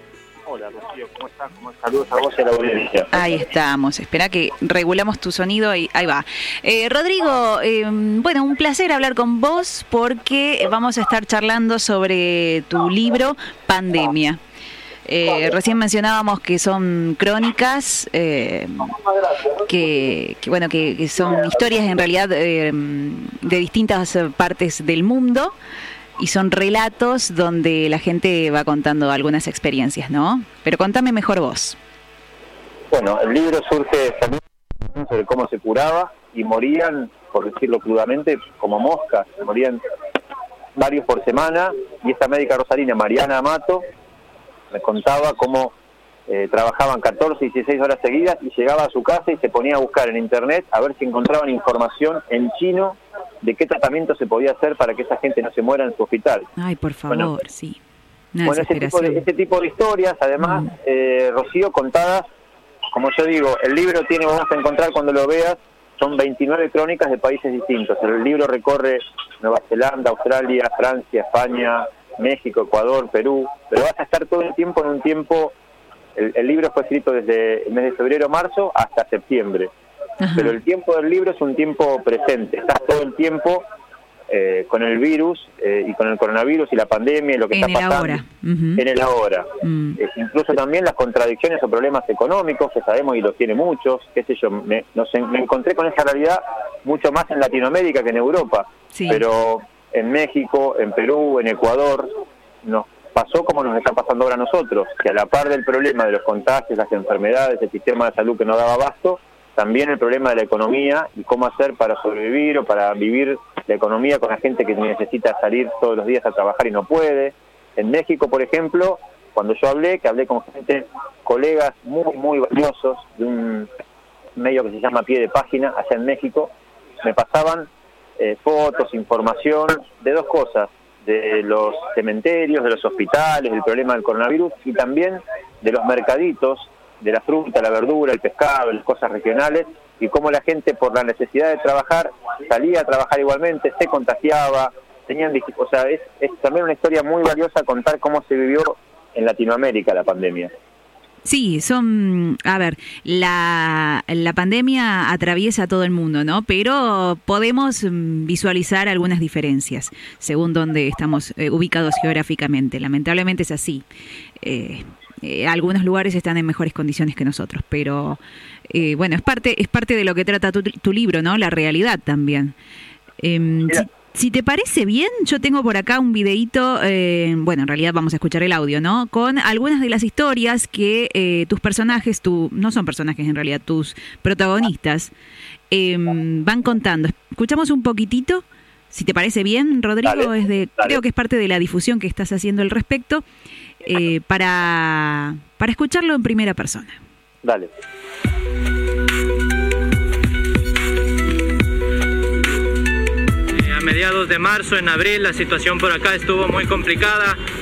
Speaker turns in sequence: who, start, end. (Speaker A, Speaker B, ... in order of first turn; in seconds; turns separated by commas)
Speaker A: 0.4-3.1, Speaker B: 3.1-14.4, Speaker B: 15.1-19.0, Speaker B: 19.6-25.5, Speaker B: 26.2-31.8, Speaker A: 32.9-34.4, Speaker A: 34.9-39.8, Speaker A: 40.7-43.8, Speaker A: 44.7-45.7, Speaker A: 46.3-56.5, Speaker B: 56.6-57.8, Speaker B: 58.3-59.2, Speaker A: 58.4-62.2, Speaker B: 60.4-60.7, Speaker A: 62.9-75.5, Speaker A: 76.1-79.7, Speaker B: 80.2-80.6, Speaker A: 80.3-83.6, Speaker A: 84.3-88.2, Speaker B: 87.5-88.8, Speaker A: 88.8-102.1, Speaker B: 89.6-90.0, Speaker B: 98.9-99.2, Speaker A: 102.6-123.7, Speaker A: 124.3-150.5, Speaker B: 151.2-163.8, Speaker B: 164.4-172.5, Speaker B: 173.2-185.1, Speaker B: 185.7-193.2, Speaker A: 190.0-191.0, Speaker B: 193.8-197.0, Speaker A: 197.4-197.7, Speaker C: 203.5-207.4